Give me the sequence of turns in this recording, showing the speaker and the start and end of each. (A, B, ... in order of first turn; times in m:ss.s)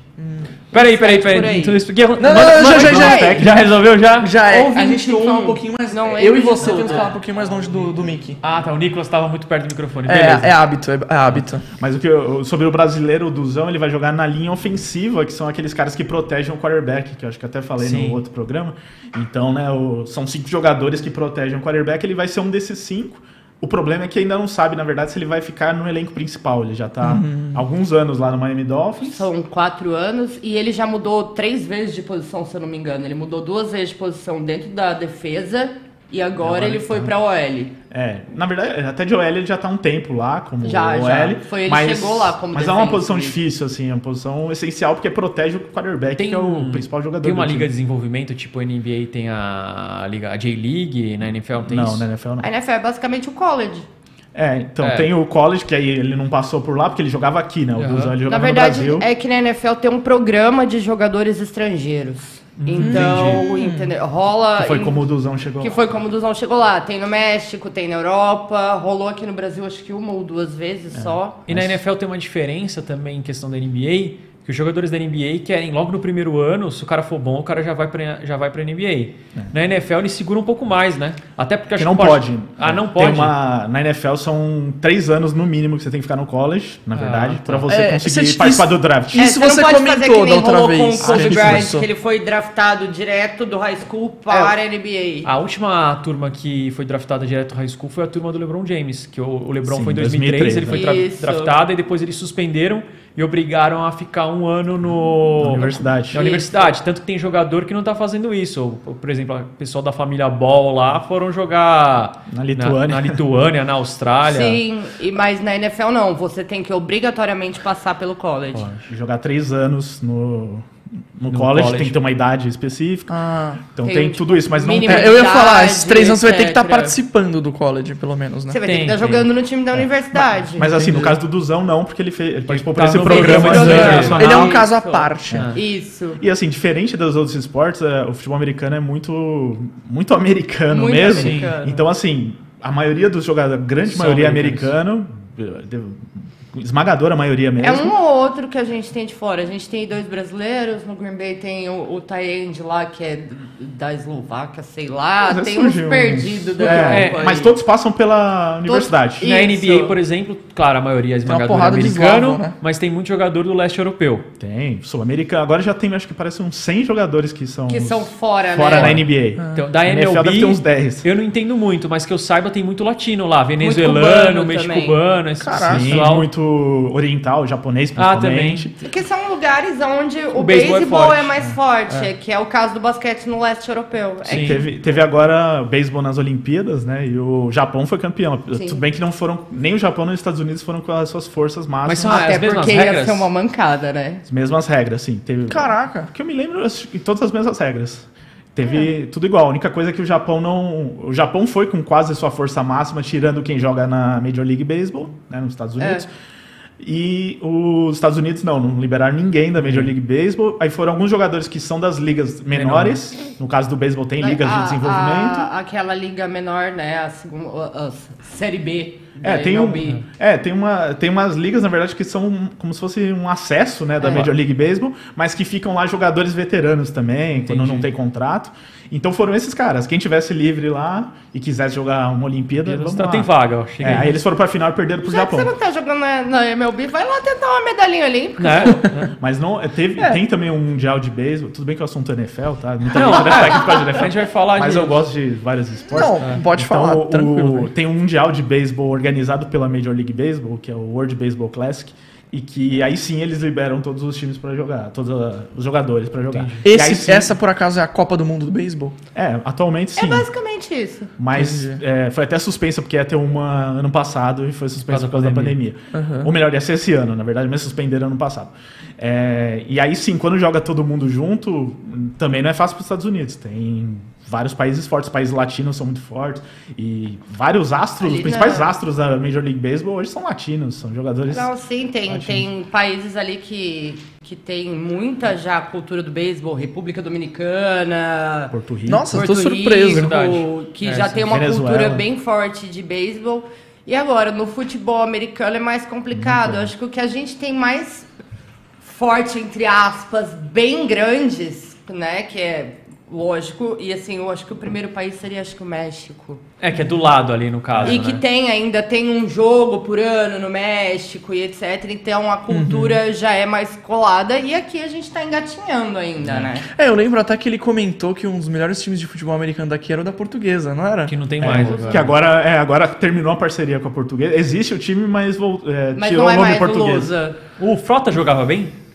0:00.2-0:00.5 A
0:00.7-0:01.8 B
0:00.7-0:04.3 C
0:02.2-0:03.6 A
0:02.3-0:03.5 B
0:04.2-0:08.4 A
0:04.4-0:07.1 B
0:08.4-0:10.6 C
0:10.0-0:11.6 A
0:11.8-0:29.3 D
0:17.8-0:18.2 C
0:27.0-0:27.6 A
0:29.0-0:37.7 B
0:36.4-0:37.1 D
0:37.9-0:47.7 D
0:40.6-0:43.4 B
0:46.2-0:52.1 C
0:51.6-0:52.5 D
0:52.4-0:53.9 B
0:54.3-0:59.0 D
0:54.8-0:55.1 C
0:57.8-0:58.2 C
0:58.3-1:11.4 B
1:02.6-1:03.4 C
1:02.8-1:03.9 A
1:04.6-1:05.8 D
1:10.9-1:11.8 D
1:11.5-1:23.3 C
1:21.8-1:29.3 D
1:26.9-1:27.7 C
1:27.7-1:31.9 A
1:29.1-1:35.3 B
1:31.1-1:31.6 D
1:35.2-1:54.6 C
1:39.6-1:40.9 D
1:40.7-1:41.5 B
1:45.4-1:46.2 D
1:45.6-1:46.7 B
1:52.3-1:53.2 D
1:54.2-1:58.7 B
1:58.5-1:58.8 C
1:58.8-2:03.2 D
2:01.3-2:02.0 C
2:03.1-2:03.6 A
2:03.7-2:05.2 D
2:03.8-2:07.0 B
2:04.8-2:08.6 A
2:08.5-2:10.7 B
2:08.6-2:09.3 C
2:10.5-2:14.5 D
2:10.6-2:11.2 A
2:12.5-2:14.5 C
2:13.0-2:16.2 B
2:13.6-2:15.5 A
2:15.3-2:15.6 C
2:16.2-2:27.9 D
2:20.7-2:21.8 B
2:21.1-2:21.5 C
2:23.8-2:24.7 C
2:27.6-2:37.6 B
2:35.2-2:39.3 D
2:36.6-2:37.2 C
2:38.6-2:40.0 B
2:39.2-2:44.2 C
2:41.2-2:42.5 A
2:44.4-2:51.1 D
2:47.7-2:49.0 B
2:48.7-2:49.0 C
2:49.4-2:49.6 A
2:49.5-2:56.3 C
2:53.6-2:55.0 B
2:55.4-2:56.0 A
2:55.6-2:58.8 D
2:58.0-2:58.7 C
2:58.8-3:04.7 B
3:00.3-3:01.3 C
3:04.2-3:04.6 C
3:04.3-3:12.3 D
3:08.5-3:08.8 B
3:11.8-3:13.3 C
3:12.0-3:14.2 B
3:14.2-3:26.1 D
3:15.5-3:16.1 A
3:25.8-3:26.0 B
3:26.8-3:35.5 D
3:29.6-3:29.9 C
3:32.5-3:33.0 C
3:34.2-3:40.0 B
3:39.2-3:55.5 D
3:44.0-3:44.3 B
3:47.4-3:47.9 C
3:52.6-3:54.2 C
3:55.0-3:58.9 B
3:58.4-3:59.1 C
3:59.2-4:17.3 D
4:02.9-4:05.0 C
4:05.9-4:07.7 A
4:16.3-4:16.6 C
4:16.6-4:19.0 A
4:19.1-4:20.3 D
4:20.0-4:21.1 B
4:21.2-4:41.5 D
4:21.3-4:21.8 A
4:24.8-4:25.6 C
4:25.9-4:26.3 A
4:38.0-4:38.7 B
4:41.3-4:48.5 B
4:42.1-4:42.4 D
4:48.5-4:49.2 D
4:48.9-4:50.1 A
4:49.1-4:58.1 B
4:49.9-4:51.3 C
4:51.3-4:52.0 D
4:56.1-4:56.7 D
4:58.8-5:06.4 B
5:06.6-5:08.2 C
5:07.7-5:08.0 D
5:07.8-5:16.6 B
5:12.5-5:13.0 A
5:16.2-5:16.5 D
5:16.7-5:21.7 A
5:21.1-5:22.1 C
5:21.4-5:27.1 D
5:21.7-5:21.9 B
5:25.9-5:27.4 B
5:27.6-5:28.7 C